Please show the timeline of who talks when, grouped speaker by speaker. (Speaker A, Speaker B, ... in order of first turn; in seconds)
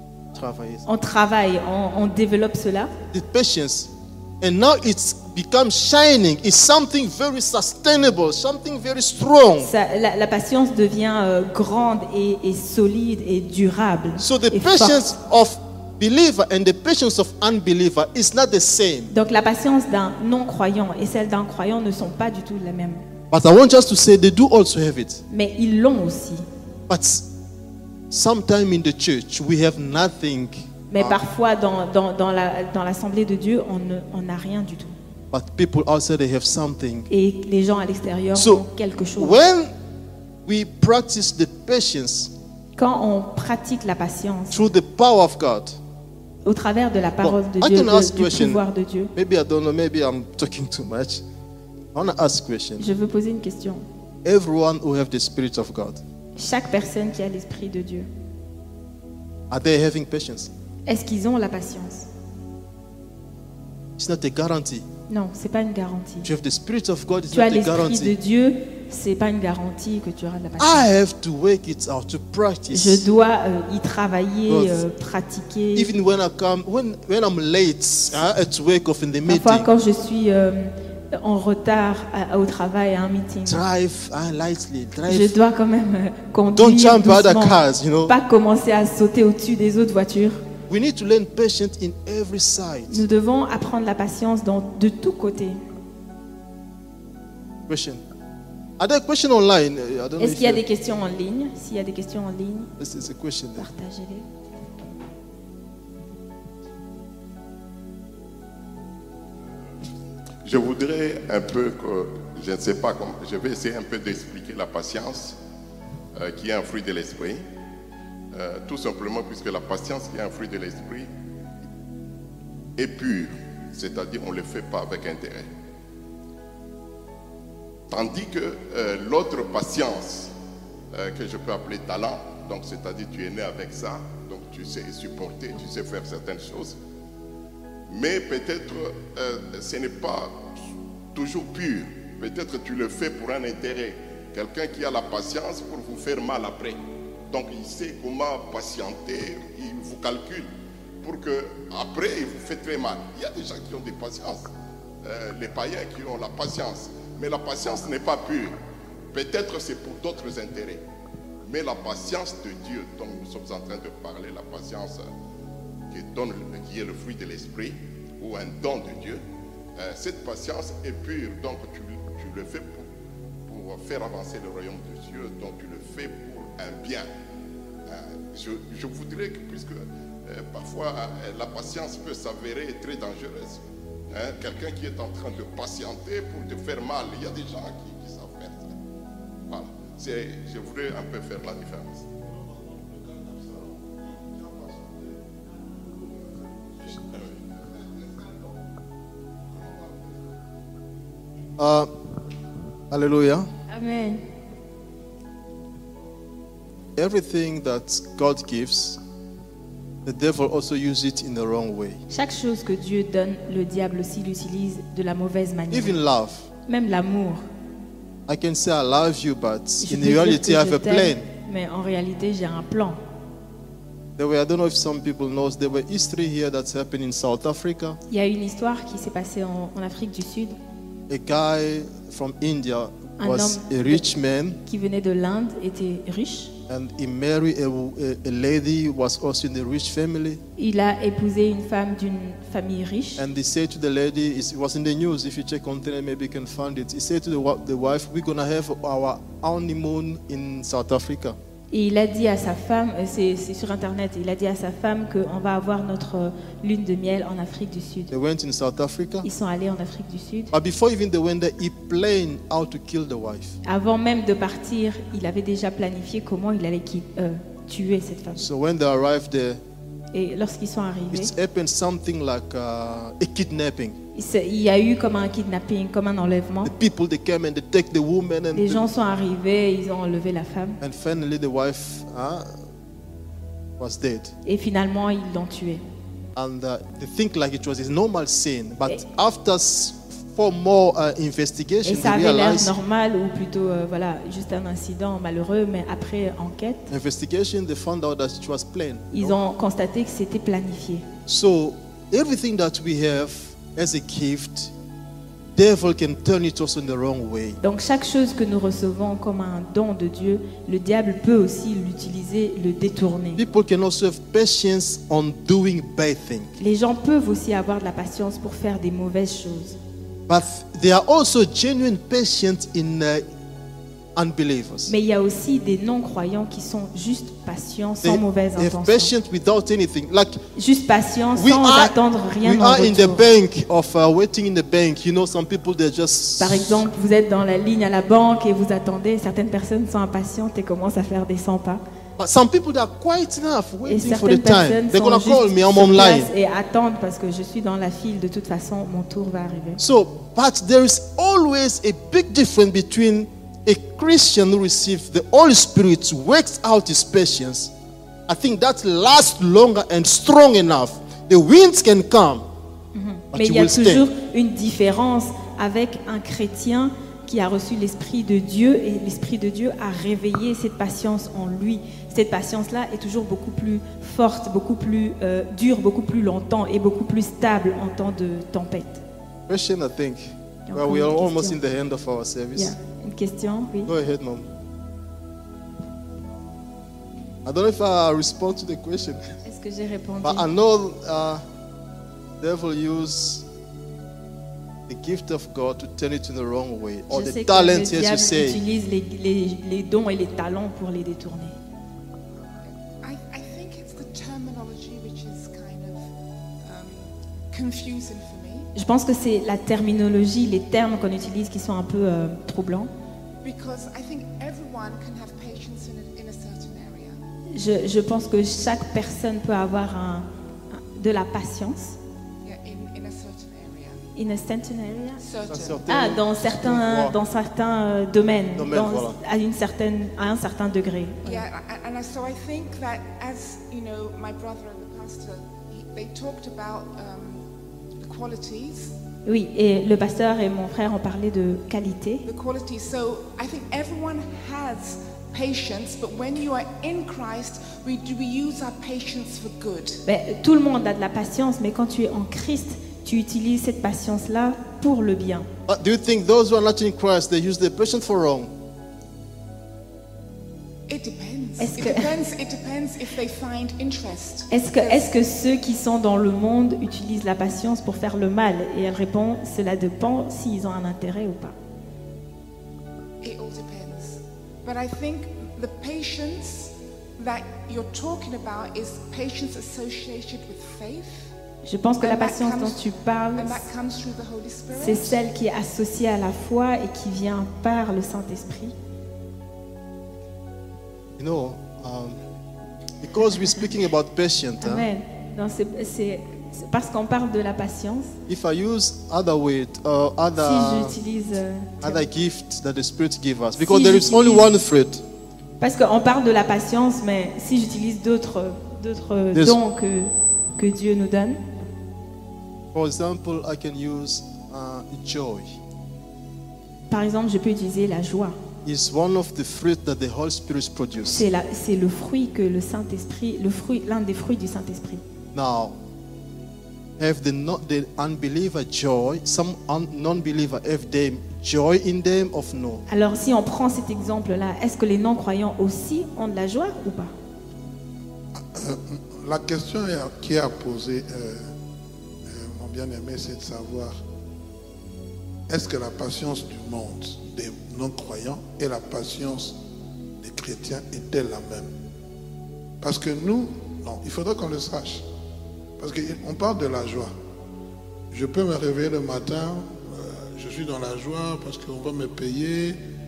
Speaker A: 0.3-0.9, 3.1-9.7, 14.2-19.1, 23.3-25.2, 26.9-27.3, 28.1-31.2, 35.3-37.1, 38.4-39.7, 40.5-42.3, 44.5-45.8, 47.2-48.6, 49.1-51.2, 51.9-52.9, 54.2-56.0, 59.5-60.5, 64.0-64.9, 66.2-68.2, 70.6-73.1, 74.5-74.8, 75.8-79.7, 83.5-85.4, 86.5-88.2, 90.7-93.0, 97.7-98.0, 98.8-100.6, 102.8-103.7, 201.6-201.9, 202.9-203.5, 207.0-209.0, 210.1-212.0, 215.7-216.5, 218.3-221.3, 224.2-228.0, 231.1-234.6, 236.7-240.4, 243.2-251.4, 258.1-259.3, 260.5-263.6, 268.4-269.6, 271.1-274.0, 276.6-278.9, 280.8-282.6, 283.8-284.3, 286.4-292.7, 296.9-299.4, 301.3-304.7, 305.6-307.6, 313.4-316.6, 320.3-323.2, 324.1-324.9, 328.0-330.4, 331.4-336.8, 342.2-346.3, 349.8-357.7, 358.3-362.5, 363.3-364.1, 379.5-382.8, 383.9-384.5, 387.4-389.3, 390.2-391.4, 392.4-393.5, 394.9-398.6, 425.5-427.2, 428.6-429.2, 455.7-458.5, 491.2-492.2, 493.0-494.9, 498.3-501.0, 501.8-505.1, 509.3-509.6, 512.7-515.6, 518.6-521.3, 525.3-525.8, 527.0-532.8
Speaker B: 0.9-2.9, 9.6-15.1, 19.1-23.0, 25.3-26.4, 30.9-35.0, 37.1-39.4, 42.8-44.6, 46.5-49.1, 52.8-53.9, 56.4-58.1, 60.9-62.1, 65.1-66.3, 67.3-70.9, 72.7-75.9, 79.3-83.6, 85.1-90.4, 92.9-95.6, 100.2-102.7, 103.6-104.3, 203.7-204.2, 212.1-216.0, 216.7-217.4, 219.8-223.0, 228.1-230.6, 233.2-234.0, 234.6-236.5, 240.6-243.2, 251.7-258.1, 259.2-260.5, 263.6-268.5, 270.1-271.3, 274.1-276.7, 278.6-280.8, 284.4-285.8, 291.9-296.9, 299.1-301.1, 307.6-313.4, 316.6-319.8, 324.9-329.1, 330.6-333.3, 336.4-341.8, 343.9-349.8, 362.9-379.0, 380.7-381.6, 382.6-383.9, 389.4-390.5, 397.1-401.6, 408.8-412.9, 417.5-422.0, 424.2-425.2, 425.9-431.4, 439.2-442.2, 450.1-455.5, 461.6-462.1, 464.5-471.6, 481.6-483.6, 484.8-488.8, 494.6-498.1, 500.4-502.0, 503.6-504.5, 505.6-511.4, 516.9-518.4, 521.0-525.0, 532.9-537.1
Speaker C: 110.5-115.4, 116.2-117.4, 118.3-121.1, 122.8-125.5, 127.9-130.3, 130.9-136.8, 137.9-140.5, 141.1-150.5, 151.0-154.5, 155.0-158.6, 159.1-160.8, 161.4-165.1, 165.9-169.2, 169.8-172.9, 173.5-177.1, 177.9-188.7, 189.5-192.1
Speaker D: 193.0-193.7, 194.4-195.0, 195.9-198.0, 199.7-200.0, 538.4-541.5, 542.3-544.0, 545.5-549.6, 550.2-551.7, 552.8-555.0, 555.8-557.1, 558.1-562.8
Speaker E: 403.0-406.0, 406.6-408.7, 413.4-417.2, 422.4-424.0, 425.2-425.8, 431.2-437.4, 438.0-438.9, 442.2-450.0, 460.9-465.1, 473.2-481.3, 482.0-485.2